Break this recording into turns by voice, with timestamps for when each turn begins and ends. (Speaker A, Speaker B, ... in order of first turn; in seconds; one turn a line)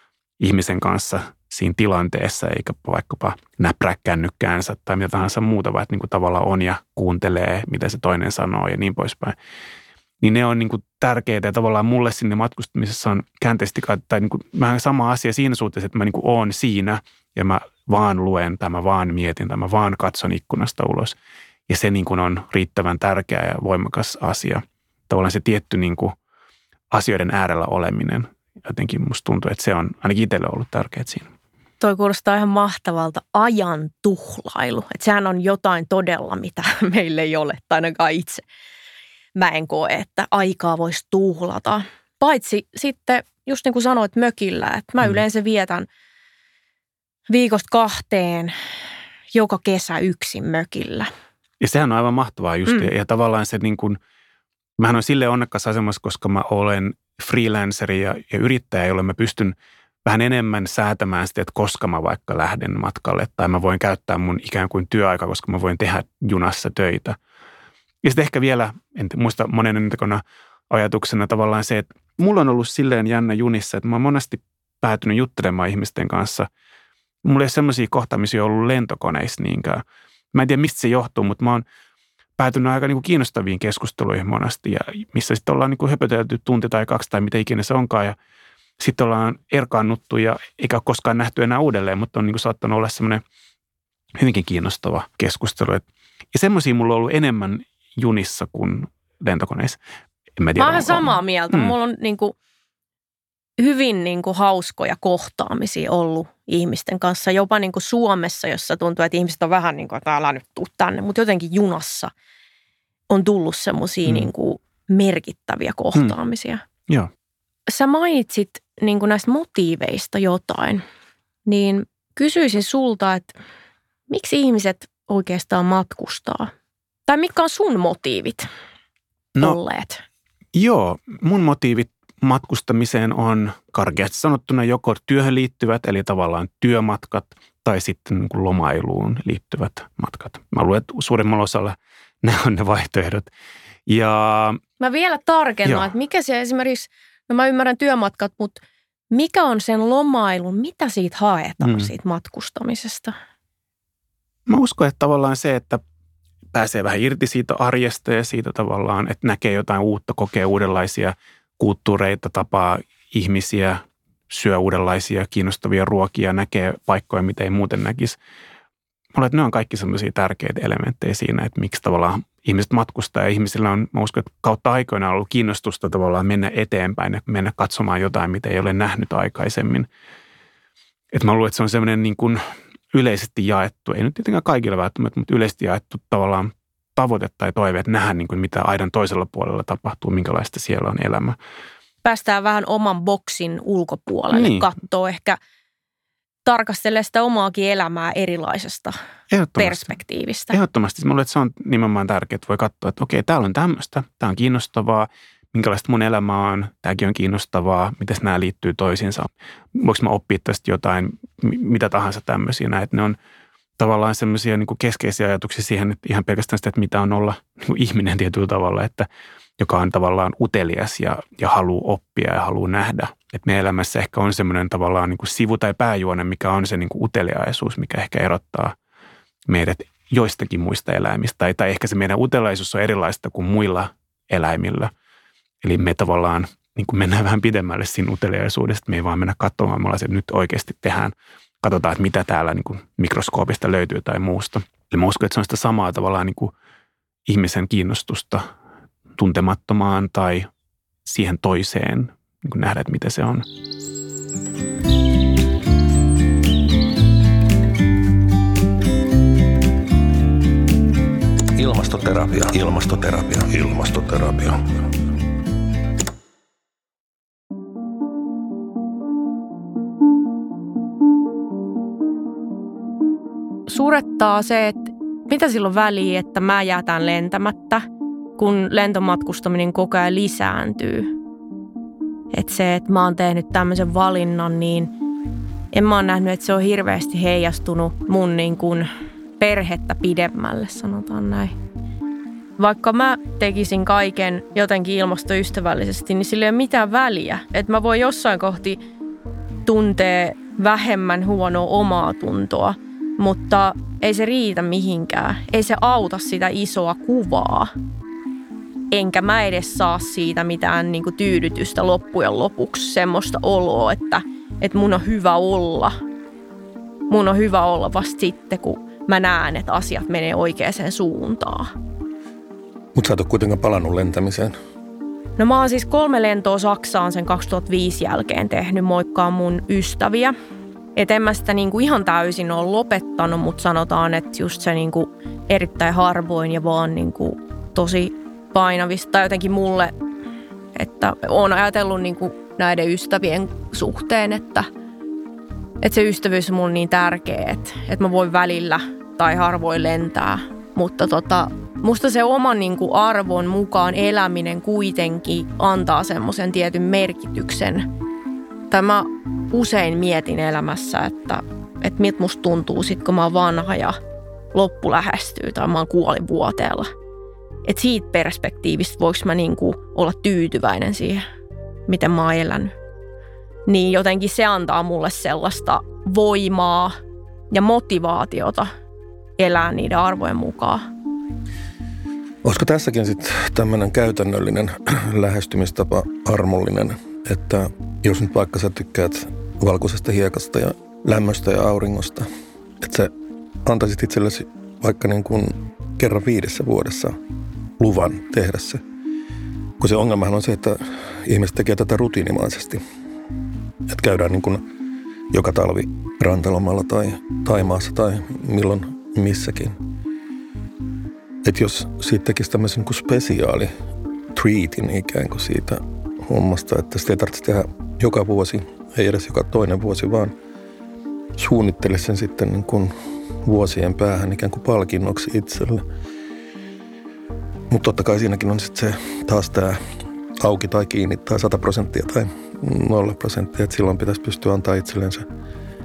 Speaker A: 0.4-9.4
Speaker A: 10.2-21.1
Speaker A: 21.7-26.1
Speaker A: 26.9-31.3
Speaker B: 31.8-38.4
Speaker B: 39.4-45.9
Speaker B: 47.3-48.5
Speaker B: 49.3-51.1
Speaker A: 51.6-54.0
Speaker A: 54.8-67.2
Speaker A: 68.0-76.5
Speaker A: 77.2-81.6
Speaker A: 82.4-88.2
Speaker A: 88.8-93.2
Speaker A: 94.2-99.8
Speaker A: 100.4-101.8
Speaker B: 100.6-102.4
Speaker B: 103.6-112.1
Speaker B: 113.1-116.6
Speaker B: 117.7-120.8
Speaker B: 121.5-123.4
Speaker B: 124.1-126.5
Speaker B: 127.1-128.5
Speaker B: 129.4-130.0
Speaker A: 130.5-143.3
Speaker A: 143.9-144.6
Speaker B: 144.8-148.6
Speaker A: 145.7-145.9
Speaker B: 149.1-153.1
Speaker A: 151.6-151.9
Speaker A: 154.5-155.8
Speaker A: 156.5-168.2
Speaker A: 169.1-179.9
Speaker A: 181.1-182.4
Speaker A: 182.9-191.4
Speaker B: 192.0-195.4
Speaker A: 194.3-194.7
Speaker B: 196.4-199.0
Speaker A: 199.3-200.0
Speaker B: 199.6-200.6
Speaker A: 200.5-213.2
Speaker A: 213.8-219.1
Speaker A: 219.6-228.8
Speaker A: 229.5-234.9
Speaker A: 235.6-246.5
Speaker A: 247.3-248.5
Speaker A: 249.2-250.5
Speaker A: 251.1-253.5
Speaker C: 261.6-264.6
Speaker B: 273.7-277.8
Speaker B: 278.4-281.1
Speaker B: 282.3-284.9
Speaker B: 285.7-291.6
Speaker B: 292.6-298.8
Speaker B: 299.6-307.7
Speaker B: 308.9-315.9
Speaker B: 317.1-321.7
Speaker C: 322.9-324.5
Speaker B: 325.4-330.3
Speaker B: 331.0-339.9
Speaker B: 340.8-344.7
Speaker B: 345.8-357.9
Speaker B: 358.7-364.0
Speaker B: 364.5-366.9
Speaker B: 367.6-371.2
Speaker B: 371.9-372.7
Speaker B: 373.7-377.0
Speaker B: 377.5-378.7
Speaker B: 379.4-380.9
Speaker C: 382.4-392.3
Speaker C: 392.8-393.1
Speaker C: 393.6-397.1
Speaker C: 397.8-398.8
Speaker C: 399.8-402.8
Speaker C: 403.9-404.6
Speaker C: 405.3-409.8
Speaker C: 411.4-413.7
Speaker C: 414.3-420.3
Speaker C: 421.4-425.8
Speaker C: 427.7-429.8
Speaker C: 430.4-435.3